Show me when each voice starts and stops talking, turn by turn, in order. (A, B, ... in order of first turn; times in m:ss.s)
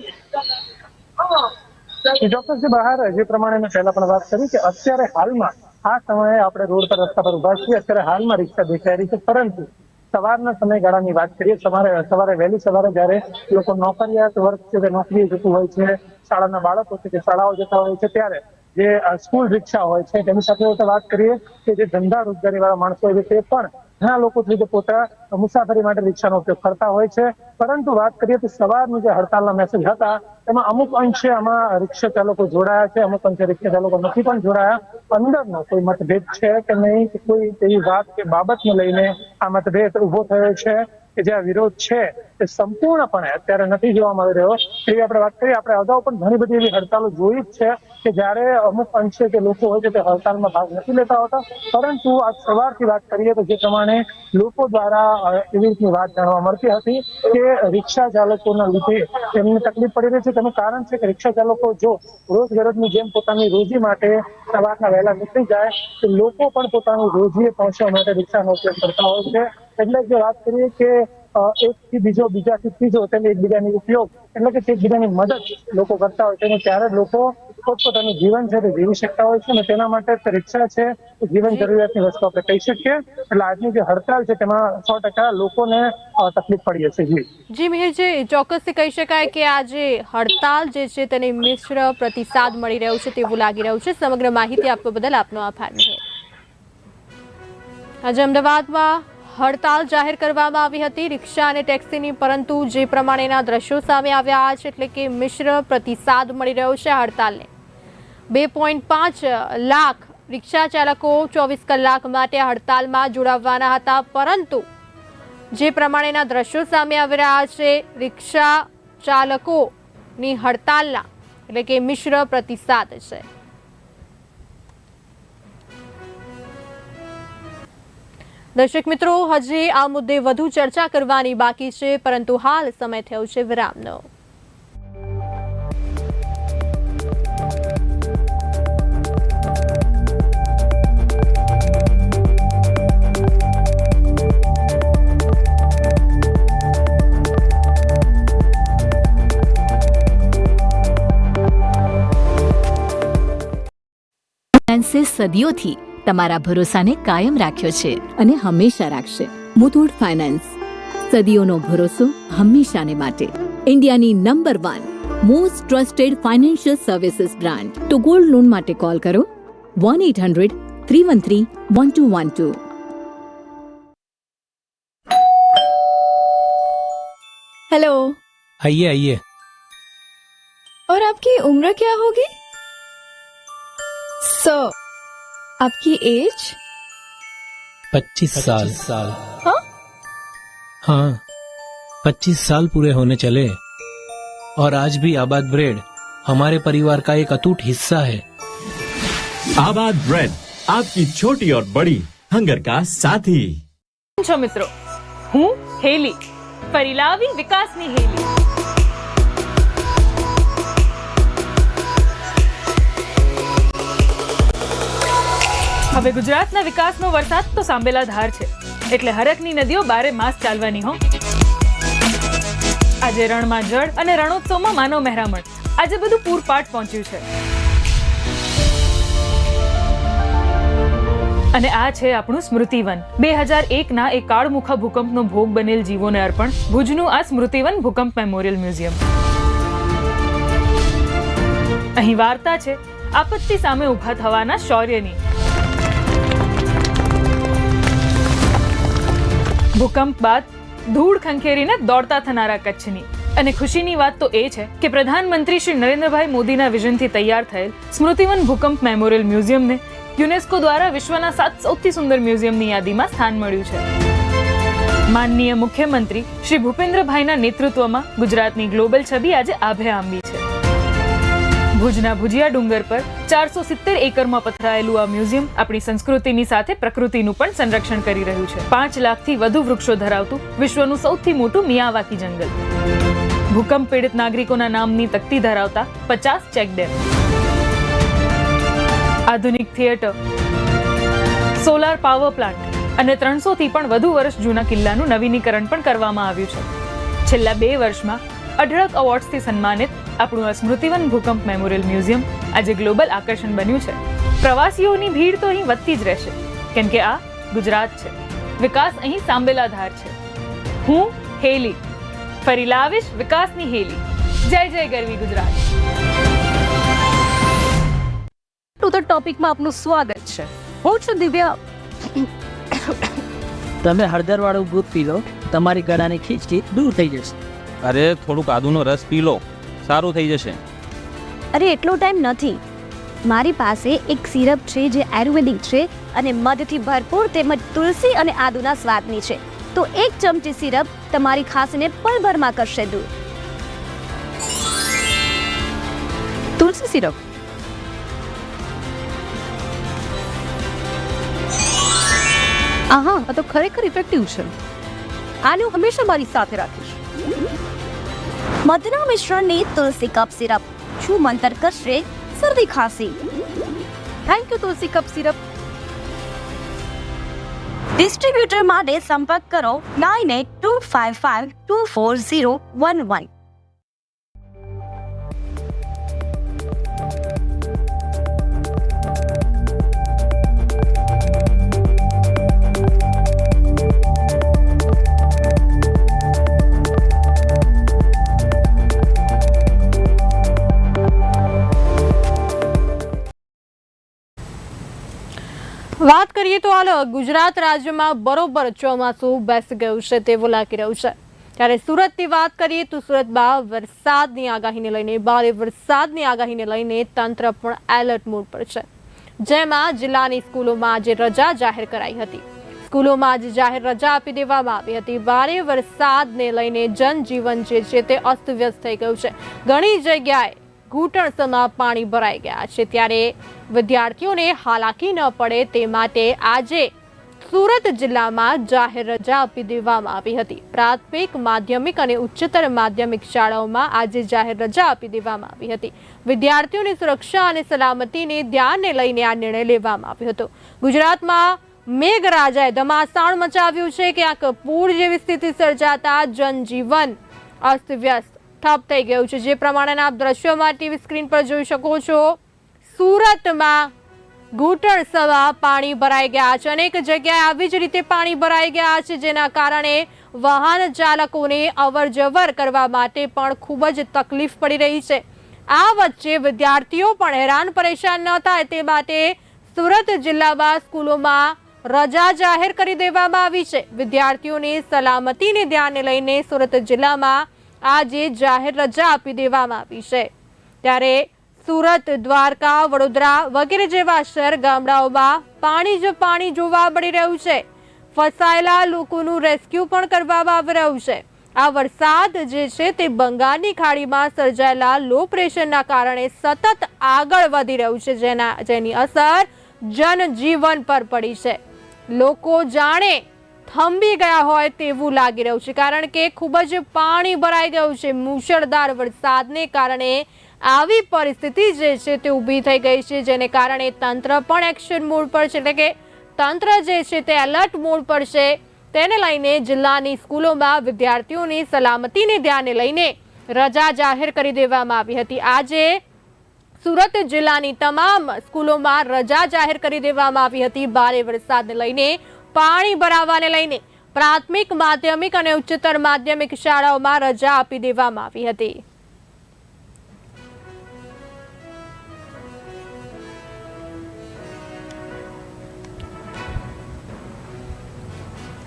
0:02.0-1:27.2 A
1:27.5-1:36.0 B
1:38.0-1:47.5 B
1:48.3-1:54.6 B
1:55.5-2:03.2 B
2:08.6-2:14.1 B
2:34.6-2:40.6 C
2:41.1-2:52.6 C
2:57.7-2:58.2 D
2:58.6-2:59.2 E
3:00.9-3:02.3 D
3:04.2-3:04.7 D
3:05.6-3:06.6 D
3:08.0-3:09.1 E
3:08.0-3:09.0 C
3:10.9-3:11.2 E
3:12.1-3:13.5 E
3:14.6-3:18.2 E
3:19.6-3:23.6 F
3:24.2-3:24.7 G
3:25.3-3:26.2 G
3:26.7-3:28.3 G
3:35.9-3:41.0 G
3:43.0-3:47.2 G
3:51.5-3:59.0 G
4:02.0-4:05.2 G
4:09.7-4:23.9 G
4:25.1-4:30.4 G
4:31.7-4:42.6 G
4:43.5-4:47.0 G
4:49.3-4:50.1 G
4:51.6-4:56.7 G
4:57.2-5:10.1 G
5:10.8-5:11.8 G
5:12.4-5:15.6 G
5:18.8-5:21.6 H
5:23.8-5:27.3 I
5:27.8-5:30.6 J
5:31.5-5:32.6 K
5:33.2-5:43.1 K
5:46.6-5:47.2 H
5:52.9-5:54.5 H
5:55.4-5:57.0 H
5:58.6-6:03.2 K
6:04.2-6:05.4 H
6:08.0-6:13.3 K
6:36.0-6:48.8 B
6:49.4-7:06.9 B
7:07.4-7:32.4 B
7:32.9-7:33.9 B
7:34.5-8:00.3 B
8:00.8-8:07.6 B
8:08.1-8:21.6 B
8:22.1-8:46.0 B
8:46.8-8:58.8 B